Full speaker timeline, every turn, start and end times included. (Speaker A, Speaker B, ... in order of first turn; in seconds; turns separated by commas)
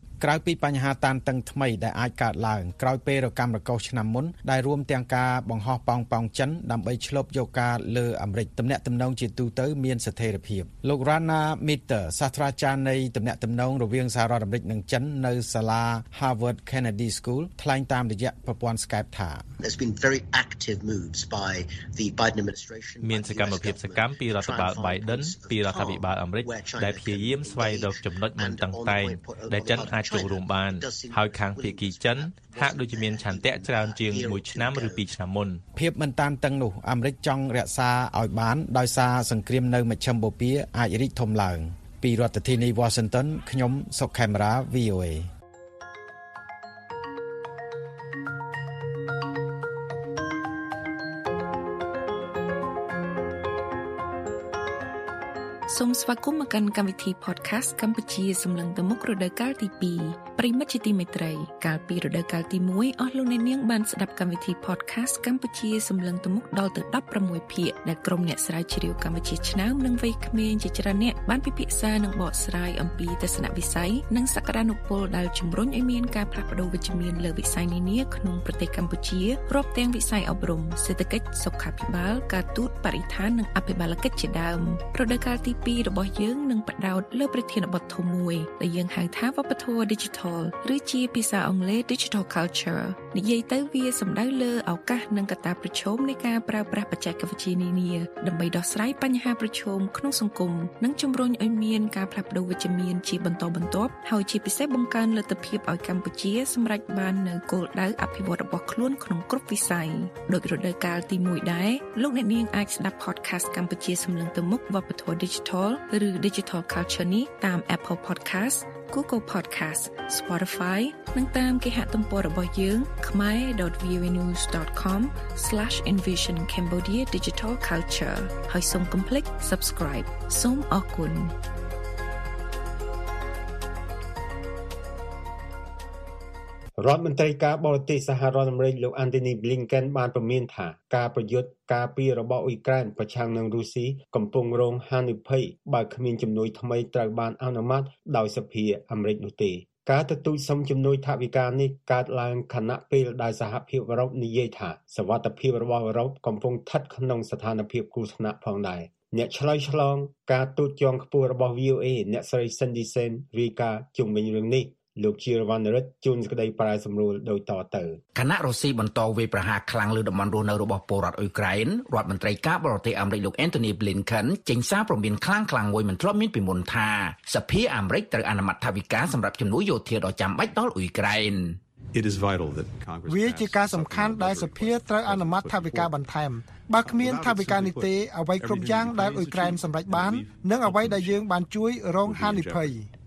Speaker A: 0.2-19.4, Speaker B: 19.6-35.1, Speaker C: 23.0-35.6, Speaker A: 35.7-45.3, Speaker D: 55.7-131.3, Speaker E: 136.8-168.0, Speaker F: 168.1-181.6, Speaker G: 181.9-186.0, Speaker H: 183.1-192.9, Speaker G: 186.6-191.4, Speaker G: 192.0-192.8